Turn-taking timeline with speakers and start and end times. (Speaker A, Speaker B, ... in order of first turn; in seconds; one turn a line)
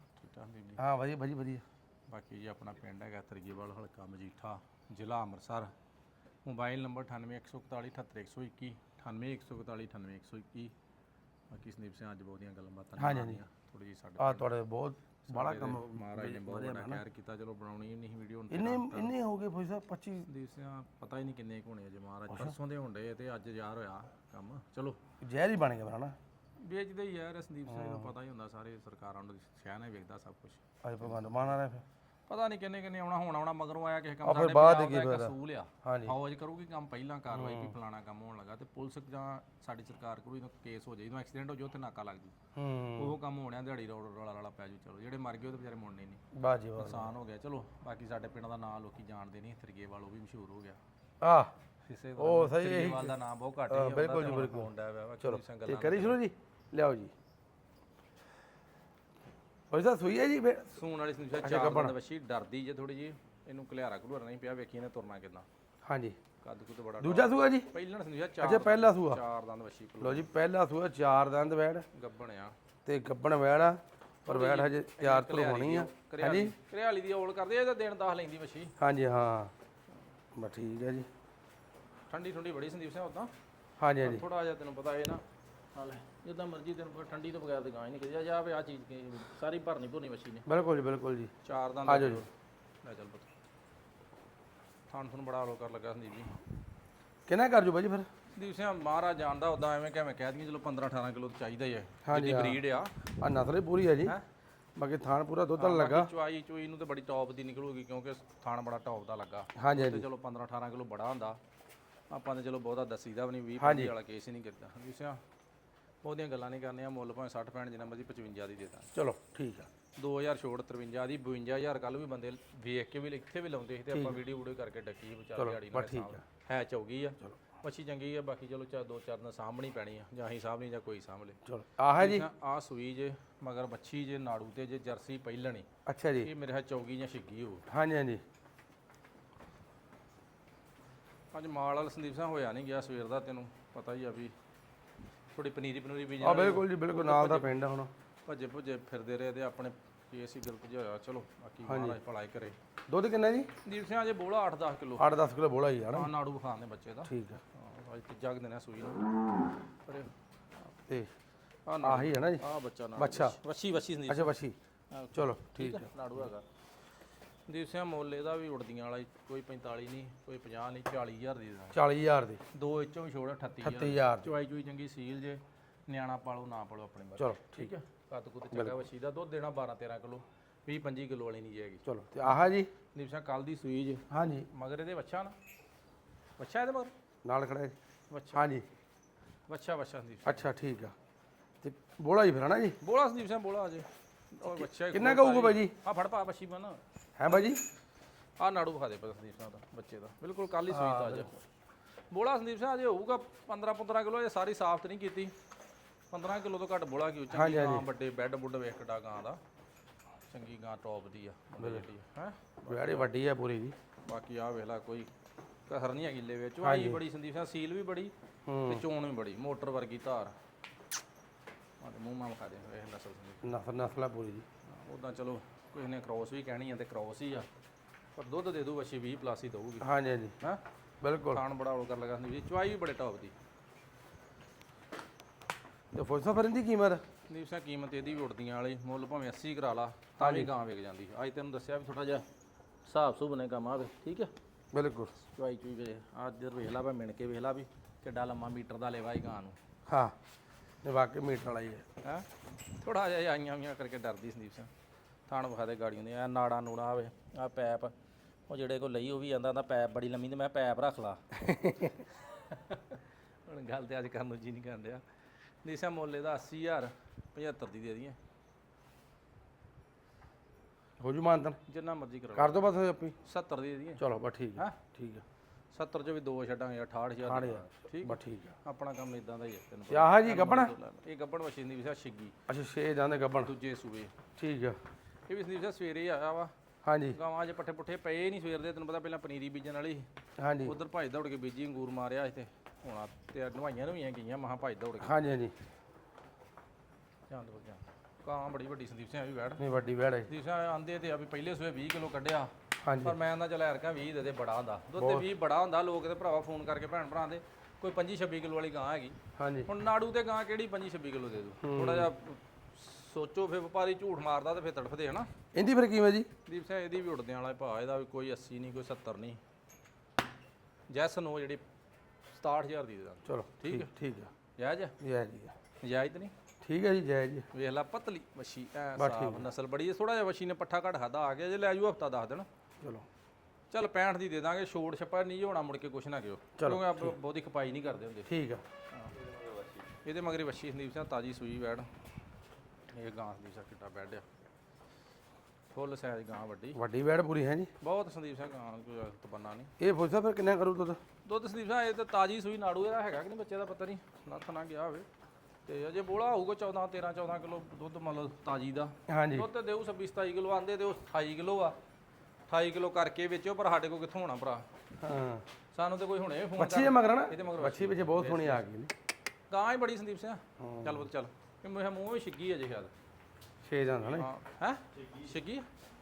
Speaker A: 0.2-0.8
Speaker B: 0.8-1.6
Speaker A: 2.1-5.7
Speaker A: 6.5-10.7
Speaker A: 11.5-14.5
Speaker B: 13.0-13.4
Speaker B: 14.2-17.0
Speaker A: 15.3-19.1
Speaker B: 18.5-20.3
Speaker A: 20.2-25.0
Speaker B: 25.2-26.1
Speaker A: 26.6-31.5
Speaker B: 27.7-28.1
Speaker B: 30.8-31.8
Speaker A: 32.3-42.3
Speaker B: 34.2-36.1
Speaker B: 37.3-37.7
Speaker B: 42.6-43.1
Speaker A: 43.0-46.2
Speaker B: 46.3-47.1
Speaker A: 46.8-50.8
Speaker B: 51.2-51.5
Speaker A: 51.8-56.2
Speaker B: 52.2-53.1
Speaker B: 53.7-54.7
Speaker B: 55.2-57.1
Speaker B: 59.7-60.8
Speaker A: 60.7-65.5
Speaker B: 61.4-61.9
Speaker B: 65.9-66.2
Speaker A: 66.4-70.3
Speaker B: 67.0-67.7
Speaker B: 68.4-69.2
Speaker B: 70.0-71.9
Speaker A: 71.9-72.6
Speaker B: 72.8-76.5
Speaker A: 74.3-78.7
Speaker B: 78.8-79.5
Speaker B: 80.4-81.1
Speaker A: 82.1-83.3
Speaker B: 83.8-84.2
Speaker A: 84.0-85.2
Speaker A: 85.7-90.5
Speaker B: 90.5-91.3
Speaker A: 91.4-92.3
Speaker B: 91.8-92.2
Speaker A: 92.8-93.3
Speaker A: 94.9-96.4
Speaker B: 97.3-98.1
Speaker A: 98.3-103.0
Speaker B: 102.0-102.6
Speaker B: 103.2-104.1
Speaker B: 104.8-106.1
Speaker A: 105.6-111.4
Speaker B: 109.5-110.0
Speaker A: 112.1-115.2
Speaker B: 113.6-113.9
Speaker A: 116.0-118.9
Speaker B: 118.9-119.7
Speaker A: 120.0-131.4
Speaker B: 125.4-126.2
Speaker B: 131.4-132.3
Speaker A: 131.9-135.7
Speaker B: 135.8-136.3
Speaker A: 136.2-137.6
Speaker B: 137.7-138.2
Speaker A: 141.3-144.3
Speaker A: 145.3-147.5
Speaker B: 146.2-147.9
Speaker A: 148.2-152.6
Speaker B: 151.7-152.0
Speaker B: 152.9-153.5
Speaker A: 153.6-155.1
Speaker B: 155.0-156.1
Speaker A: 155.9-159.0
Speaker B: 157.0-157.4
Speaker A: 159.8-160.1
Speaker A: 161.7-164.3
Speaker B: 161.8-162.4
Speaker B: 163.0-163.4
Speaker B: 164.1-164.6
Speaker A: 164.9-166.4
Speaker B: 165.1-165.9
Speaker A: 167.5-171.8
Speaker B: 171.7-172.4
Speaker A: 172.5-182.4
Speaker B: 173.6-174.3
Speaker B: 177.2-177.7
Speaker B: 181.8-182.7
Speaker A: 182.9-185.3
Speaker B: 184.1-184.5
Speaker A: 186.4-186.9
Speaker B: 187.2-187.7
Speaker A: 188.1-188.4
Speaker B: 188.3-188.7
Speaker A: 189.5-190.5
Speaker B: 190.2-190.9
Speaker B: 191.6-192.8
Speaker A: 192.8-196.8
Speaker B: 194.4-195.7
Speaker B: 197.2-197.6
Speaker A: 198.4-201.4
Speaker B: 200.7-201.3
Speaker A: 202.1-205.3
Speaker A: 206.1-209.4
Speaker B: 207.3-207.8
Speaker A: 210.3-213.1
Speaker B: 211.6-211.8
Speaker B: 212.7-213.7
Speaker A: 214.1-215.1
Speaker A: 215.7-218.1
Speaker B: 216.6-217.0
Speaker B: 218.5-218.8
Speaker A: 218.7-220.3
Speaker A: 221.8-223.4
Speaker B: 223.4-224.4
Speaker A: 224.7-227.5
Speaker A: 228.2-229.8
Speaker B: 229.8-230.3
Speaker B: 231.0-231.4
Speaker A: 231.3-233.3
Speaker B: 235.9-237.0
Speaker A: 237.3-242.2
Speaker B: 240.2-240.5
Speaker A: 242.8-244.3
Speaker B: 244.7-245.1
Speaker A: 245.2-249.6
Speaker B: 249.9-250.1
Speaker B: 250.8-251.8
Speaker A: 252.0-254.7
Speaker A: 255.3-257.9
Speaker A: 258.5-265.0
Speaker B: 261.4-261.9
Speaker A: 265.6-268.2
Speaker B: 271.0-271.6
Speaker A: 271.7-272.6
Speaker B: 272.4-273.1
Speaker A: 273.2-274.0
Speaker B: 274.0-275.2
Speaker A: 275.7-282.3
Speaker B: 277.2-278.6
Speaker B: 279.9-280.7
Speaker B: 282.5-283.5
Speaker A: 283.4-284.1
Speaker B: 284.4-284.8
Speaker A: 285.3-286.5
Speaker B: 286.8-287.2
Speaker A: 287.1-290.1
Speaker B: 290.4-290.8
Speaker A: 290.6-295.1
Speaker B: 295.0-295.5
Speaker A: 297.3-299.6
Speaker B: 299.6-300.3
Speaker A: 300.3-315.3
Speaker B: 302.8-303.1
Speaker B: 305.0-305.2
Speaker B: 309.4-309.7
Speaker B: 311.6-312.1
Speaker B: 315.5-316.3
Speaker A: 316.4-319.4
Speaker A: 320.9-321.6
Speaker A: 322.3-323.9
Speaker B: 323.2-324.3
Speaker A: 324.6-324.9
Speaker B: 325.0-325.5
Speaker A: 325.8-326.3
Speaker B: 326.6-327.5
Speaker A: 327.5-332.5
Speaker B: 329.0-329.5
Speaker A: 333.7-338.3
Speaker B: 336.6-337.1
Speaker B: 338.3-338.6
Speaker A: 340.0-341.9
Speaker A: 342.9-344.2
Speaker A: 345.7-346.8
Speaker B: 346.7-347.7
Speaker A: 347.8-349.7
Speaker B: 349.8-351.0
Speaker A: 351.2-355.1
Speaker A: 355.7-361.8
Speaker B: 359.1-359.5
Speaker A: 362.5-364.7
Speaker B: 365.0-365.4
Speaker A: 365.7-368.6
Speaker B: 366.6-368.9
Speaker A: 369.5-372.9
Speaker B: 370.6-371.1
Speaker B: 373.6-374.3
Speaker A: 374.0-375.7